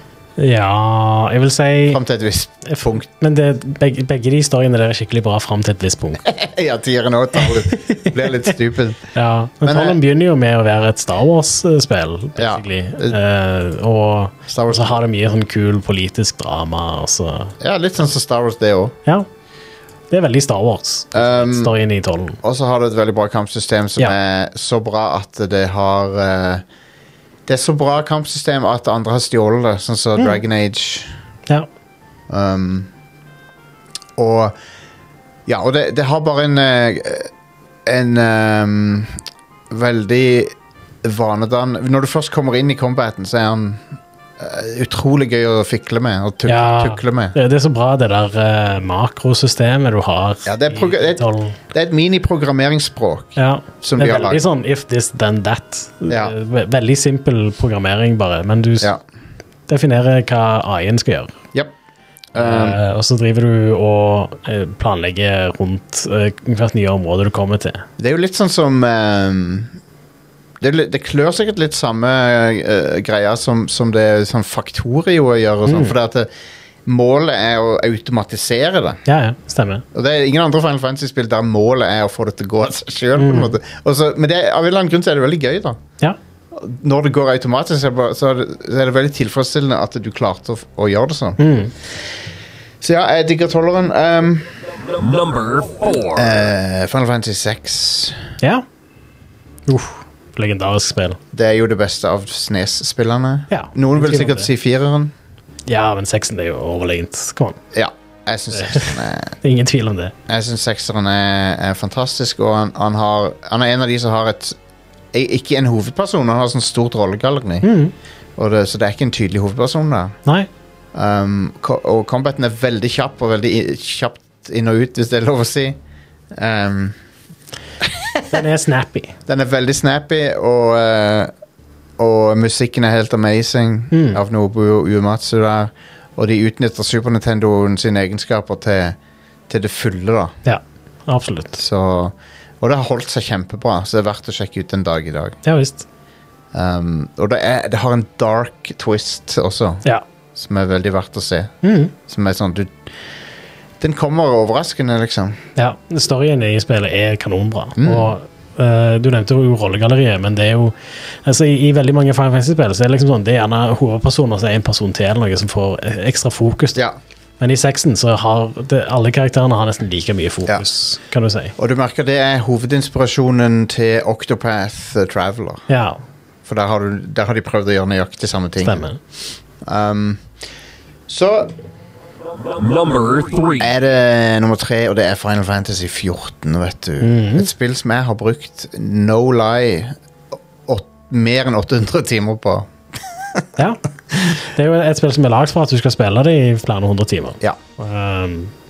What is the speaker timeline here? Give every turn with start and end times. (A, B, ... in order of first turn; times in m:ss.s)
0:00.4-0:02.0 A
0:01.9-0:03.0 B
0:02.6-0:06.2 A
0:06.2-0:09.0 B
0:07.8-0:08.1 A
0:09.1-0:17.5 A
0:09.6-0:10.0 B
0:12.4-0:13.2 B
0:14.5-0:15.0 B
0:17.6-0:19.0 B
0:20.1-0:22.4 A
0:21.1-0:21.7 B
0:22.4-0:26.6 B
0:27.4-0:31.1 B
0:32.3-0:32.9 B
0:34.2-0:34.6 B
0:35.4-0:37.3 B
0:37.8-0:39.2 B
0:39.7-0:47.4 B
0:46.4-0:51.6 A
0:50.4-0:54.4 B
0:53.4-0:58.9 A
0:56.1-0:56.3 B
0:59.7-1:01.3 A
1:02.3-1:02.8 B
1:02.4-1:07.8 A
1:08.0-1:09.8 B
1:10.6-1:16.3 B
1:15.6-1:16.0 A
1:16.8-1:19.0 B
1:19.0-1:19.8 A
1:19.9-1:25.8 B
1:23.2-1:23.5 A
1:26.5-1:31.4 B
1:31.4-1:31.7 A
1:32.8-1:34.5 B
1:34.7-1:36.4 C
1:36.1-1:38.2 B
1:39.7-1:41.2 A
1:41.3-1:45.1 B
1:43.5-1:44.5 A
1:45.7-1:47.6 A
1:47.7-1:49.4 B
1:48.5-1:50.1 A
1:50.3-1:54.6 B
1:55.1-1:57.7 B
1:57.6-1:57.9 A
1:58.4-2:00.2 B
2:00.9-2:05.8 B
2:06.3-2:07.0 B
2:07.8-2:08.4 B
2:08.3-2:09.1 A
2:09.3-2:11.3 B
2:12.0-2:19.0 B
2:13.9-2:14.2 A
2:19.5-2:20.3 B
2:20.4-2:21.6 A
2:21.6-2:25.4 B
2:25.4-2:25.8 A
2:26.5-2:29.8 B
2:30.3-2:32.9 B
2:31.6-2:31.9 A
2:33.8-2:35.4 B
2:35.6-2:46.8 A
2:37.8-2:38.1 B
2:47.4-2:51.5 A
2:51.6-2:55.6 B
2:55.7-2:56.0 A
2:56.4-2:58.9 B
2:58.6-2:59.0 A
2:59.6-3:00.3 B
3:01.1-3:01.5 B
3:02.2-3:03.7 C
3:03.6-3:10.0 B
3:07.0-3:07.5 A
3:10.6-3:12.7 B
3:13.6-3:13.8 A
3:14.4-3:18.5 A